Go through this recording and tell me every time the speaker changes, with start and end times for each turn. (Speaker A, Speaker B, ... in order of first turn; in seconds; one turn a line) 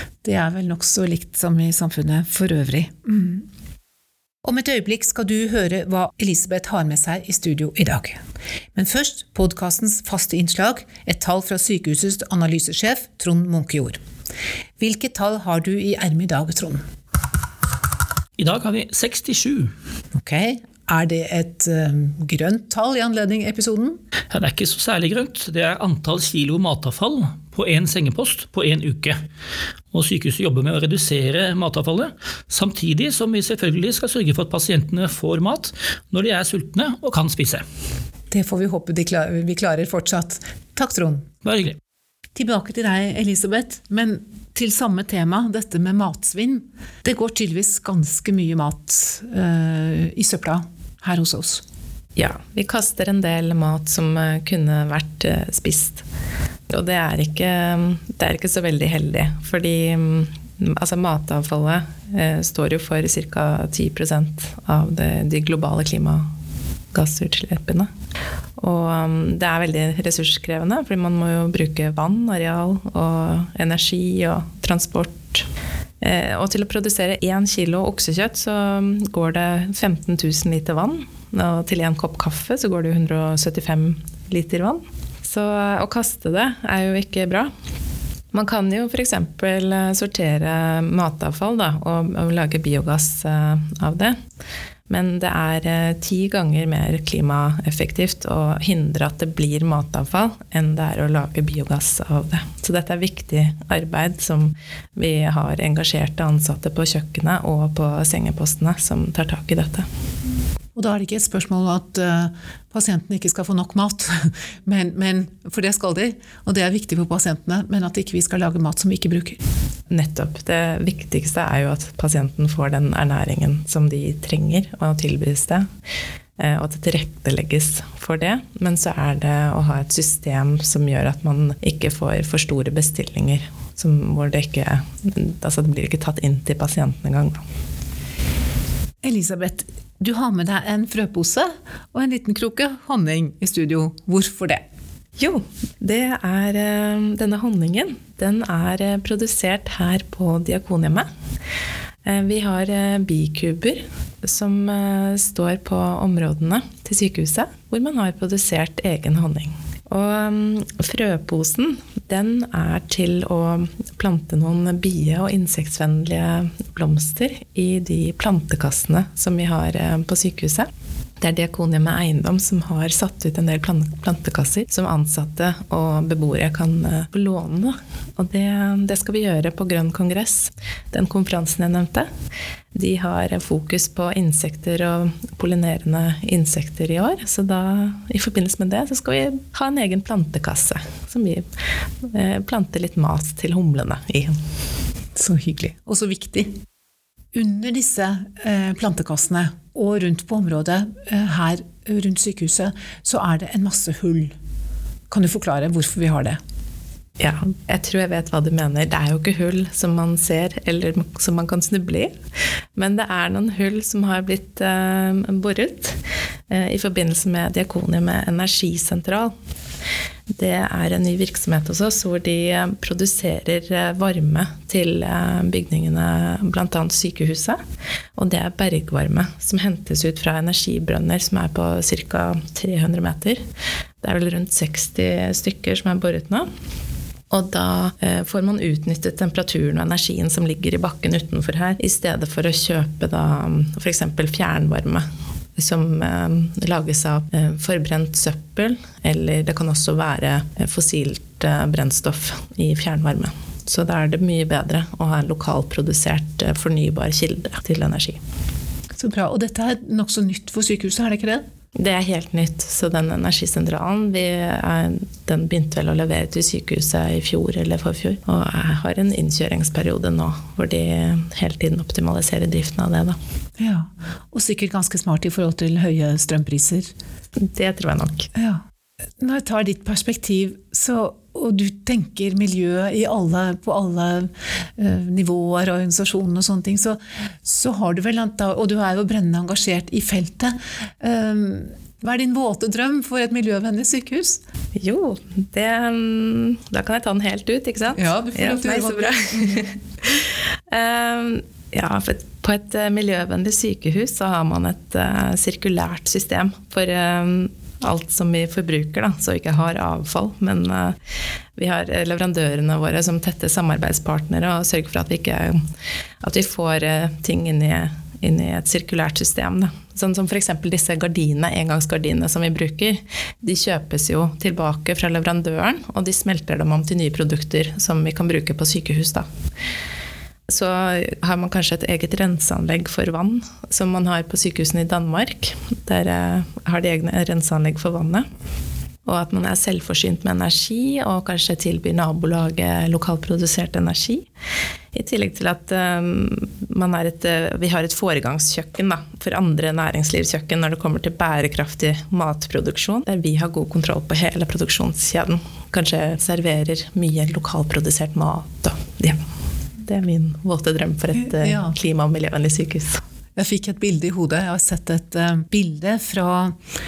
Speaker A: 0.2-3.5
Speaker A: 4.4-8.2
Speaker A: 8.8-14.0
Speaker A: 14.8-16.8
Speaker B: 18.4-19.7
Speaker A: 20.1-24.0
Speaker B: 24.3-29.2
Speaker B: 29.9-37.6
Speaker A: 38.3-41.3
Speaker B: 41.4-41.8
Speaker A: 42.4-51.6
Speaker C: 52.2-56.0
Speaker C: 56.7-66.3
Speaker C: 66.9-67.9
Speaker C: 68.6-75.5
Speaker C: 76.0-87.5
Speaker C: 88.3-94.2
Speaker C: 94.9-109.9
Speaker A: 110.8-119.4
Speaker C: 119.9-125.7
Speaker C: 126.4-137.4
Speaker A: 139.0-144.6
Speaker C: 145.2-151.1
Speaker C: 152.1-170.7
Speaker C: 171.2-182.1
Speaker C: 182.7-191.4
Speaker C: 192.1-194.3
Speaker A: 195.2-196.5
Speaker A: 197.3-204.3
Speaker A: 205.1-206.4
Speaker C: 207.2-212.1
Speaker C: 212.8-219.3
Speaker C: 220.3-227.6
Speaker C: 228.2-233.4
Speaker C: 234.0-236.5
Speaker C: 237.3-245.0
Speaker C: 245.6-258.2
Speaker A: 259.0-261.4
Speaker C: 261.8-273.2
Speaker A: 273.6-276.9
Speaker C: 277.4-278.3
Speaker A: 278.4-278.6
Speaker A: 279.2-294.4
Speaker C: 294.8-311.0
Speaker A: 298.0-299.6
Speaker C: 311.6-315.6
Speaker C: 316.2-329.3
Speaker C: 330.5-338.2
Speaker C: 339.1-344.3
Speaker C: 344.9-359.2
Speaker C: 359.8-363.0
Speaker A: 361.2-361.8
Speaker A: 363.4-366.6